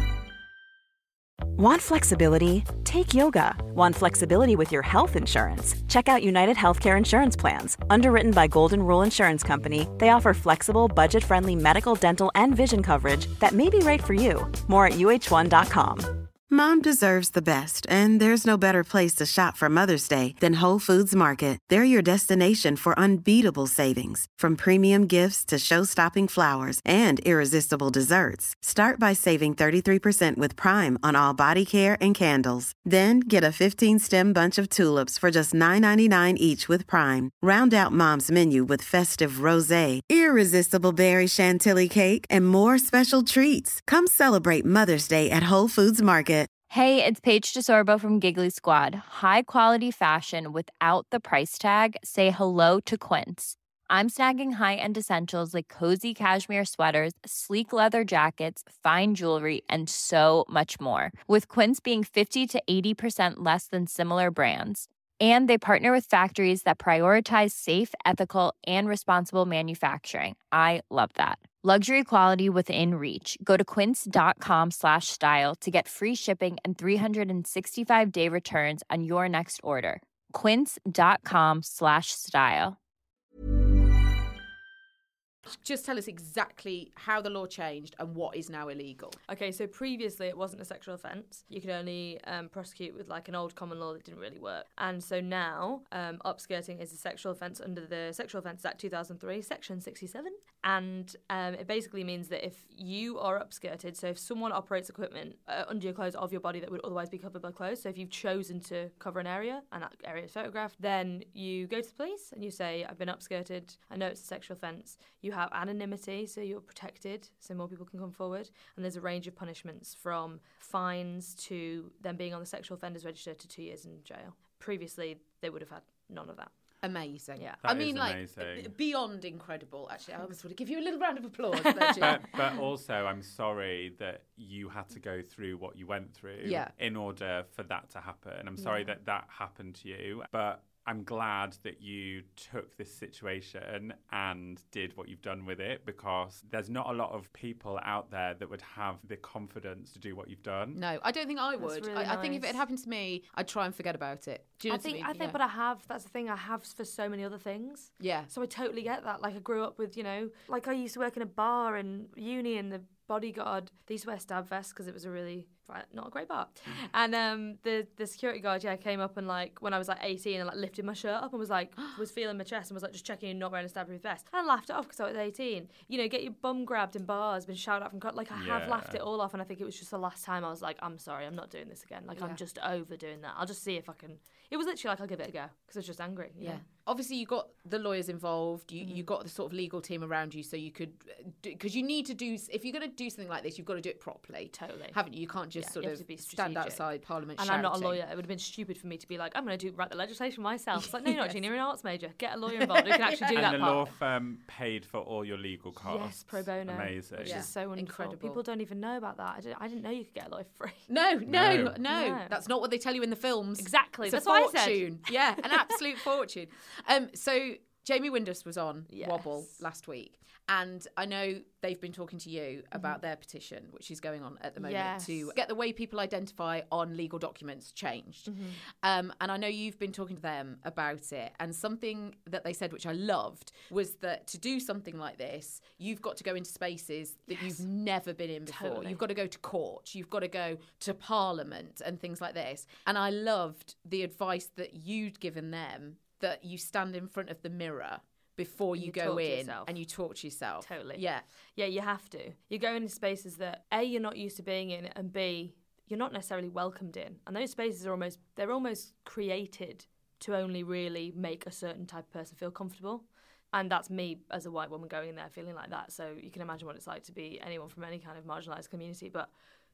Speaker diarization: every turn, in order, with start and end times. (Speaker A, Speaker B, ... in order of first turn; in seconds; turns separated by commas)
Speaker A: 1.6-16.2, Speaker B: 16.5-46.5, Speaker C: 46.7-82.8, Speaker D: 85.5-89.2, Speaker E: 89.3-126.5, Speaker D: 126.8-132.6, Speaker E: 127.3-127.6, Speaker F: 127.6-128.7, Speaker E: 131.6-132.2, Speaker F: 132.0-150.8, Speaker D: 136.4-136.7, Speaker E: 138.6-138.9, Speaker D: 150.7-155.4, Speaker E: 151.6-152.6, Speaker E: 154.7-186.6, Speaker D: 158.0-158.3, Speaker F: 178.3-179.0, Speaker D: 182.2-182.4, Speaker D: 186.4-198.0, Speaker E: 194.5-195.0, Speaker E: 195.5-203.9, Speaker D: 200.8-201.4, Speaker D: 202.5-203.6, Speaker F: 203.3-207.5, Speaker E: 205.8-210.9, Speaker D: 207.2-208.4, Speaker D: 210.9-251.2, Speaker F: 211.3-211.8, Speaker E: 211.9-212.4, Speaker E: 213.6-215.7, Speaker E: 218.9-219.6, Speaker E: 222.7-223.0, Speaker E: 224.6-225.3, Speaker E: 228.2-228.6, Speaker E: 237.3-237.6, Speaker E: 238.5-239.1, Speaker E: 248.8-249.8, Speaker E: 250.6-269.3